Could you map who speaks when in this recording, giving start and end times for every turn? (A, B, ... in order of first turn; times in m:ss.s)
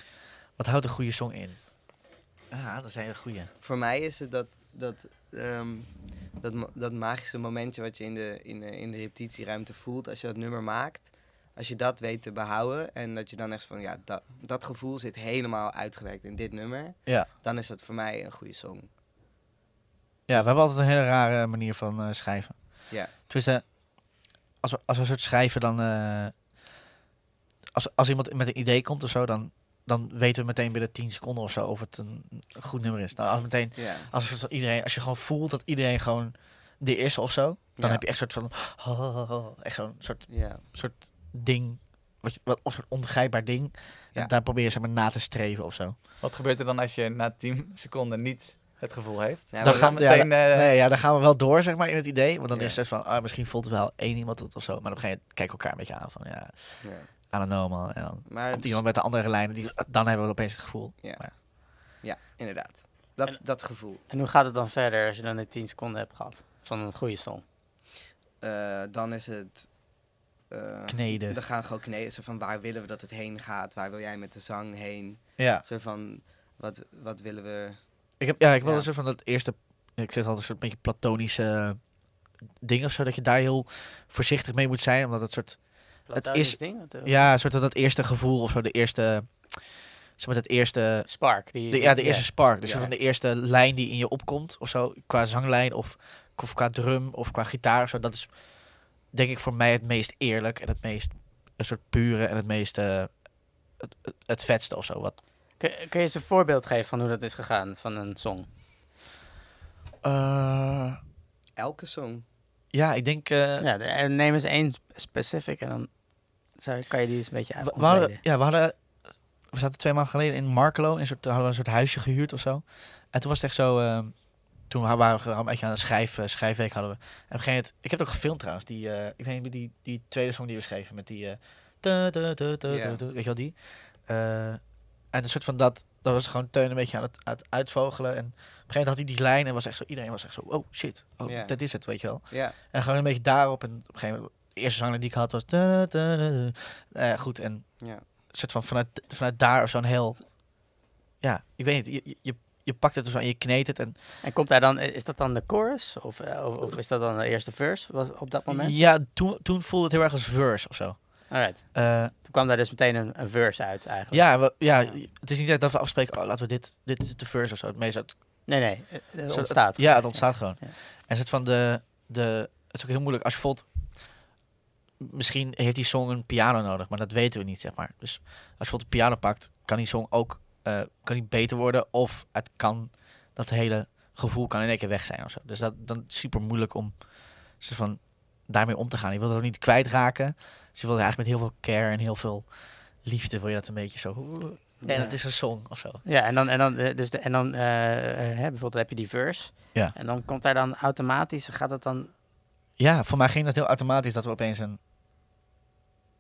0:00.6-0:03.5 A
0:03.6-0:18.9 B
0:20.3-0:26.5 A
0:27.7-0:46.0 A
0:33.7-0:34.1 B
0:37.8-0:38.0 B
0:40.3-0:40.6 B
0:46.2-0:50.8 C
0:49.5-0:50.2 B
0:49.6-1:01.3 A
0:52.5-0:52.8 B
0:56.8-0:57.1 B
0:58.3-0:58.8 B
1:01.0-1:04.0 B
1:03.2-1:07.4 D
1:08.4-1:18.9 B
1:10.9-1:11.4 A
1:15.4-1:15.6 A
1:18.2-1:45.2 A
1:26.1-1:27.3 D
1:31.1-1:32.3 D
1:32.6-1:32.9 B
1:45.6-1:48.5 D
1:50.0-1:51.0 A
1:51.6-1:52.2 B
1:52.7-1:53.7 A
1:53.6-1:58.2 D
1:57.6-2:34.0 A
2:12.7-2:13.0 B
2:21.2-2:22.6 B
2:27.8-2:28.0 B
2:34.2-2:38.8 D
2:38.5-2:42.1 A
2:41.3-2:45.0 D
2:44.1-2:48.6 A
2:48.4-2:50.7 D
2:49.3-2:54.3 A
2:55.0-3:16.0 A
3:14.8-3:15.2 B
3:14.9-3:15.5 D
3:16.0-3:22.1 D
3:22.8-3:24.8 A